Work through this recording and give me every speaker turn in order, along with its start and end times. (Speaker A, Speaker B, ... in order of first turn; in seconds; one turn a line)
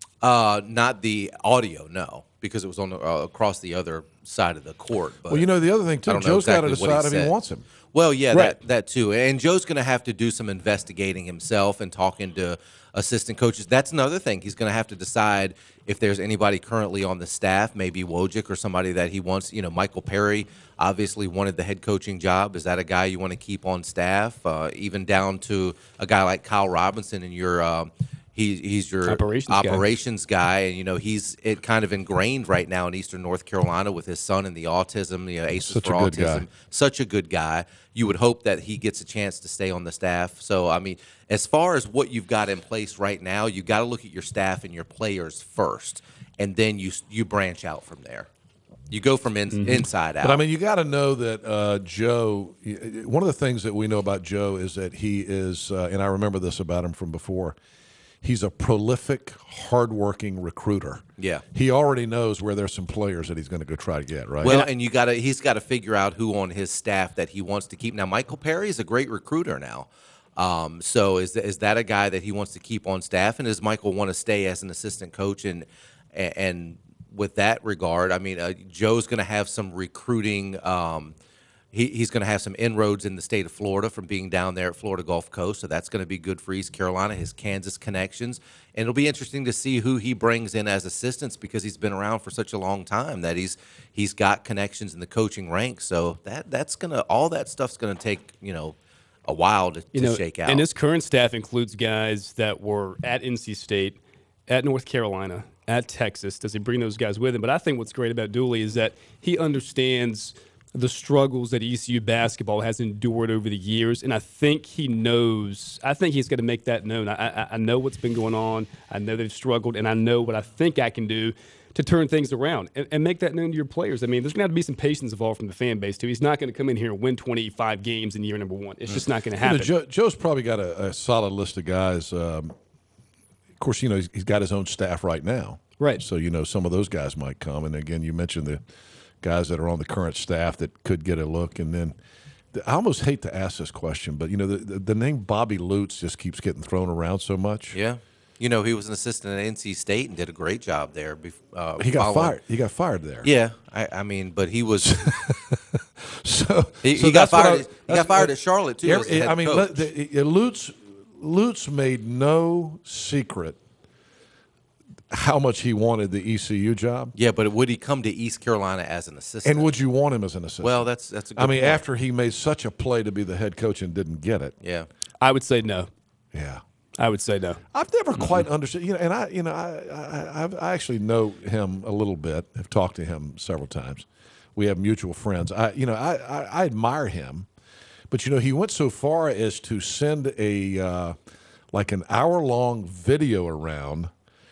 Speaker A: 0.2-5.5
Speaker B: 5.3-7.7
Speaker A: 6.1-7.3
Speaker A: 7.9-48.3
Speaker B: 8.3-8.6
Speaker C: 29.1-29.9
Speaker B: 35.6-36.5
Speaker A: 48.9-50.4
Speaker C: 49.5-49.9
Speaker B: 50.2-57.6
Speaker B: 58.2-61.0
Speaker A: 61.2-61.4
Speaker B: 61.5-64.7
Speaker A: 64.4-81.2
Speaker A: 81.7-100.7
Speaker C: 99.9-129.7
Speaker B: 129.4-132.6
Speaker B: 133.6-138.6
Speaker B: 139.2-142.0
Speaker B: 142.5-147.8
Speaker A: 147.7-152.4
Speaker B: 151.8-153.3
Speaker A: 153.2-155.1
Speaker B: 154.8-158.3
Speaker A: 156.8-159.9
Speaker B: 158.8-163.6
Speaker B: 165.1-167.1
Speaker A: 167.2-169.7
Speaker B: 169.4-170.8
Speaker A: 170.6-171.8
Speaker B: 171.4-174.6
Speaker A: 174.6-174.9
Speaker C: 175.2-175.9
Speaker B: 176.3-176.6
Speaker C: 177.0-177.6
Speaker B: 177.7-187.5
Speaker A: 178.2-178.4
Speaker B: 188.1-191.2
Speaker B: 191.7-194.1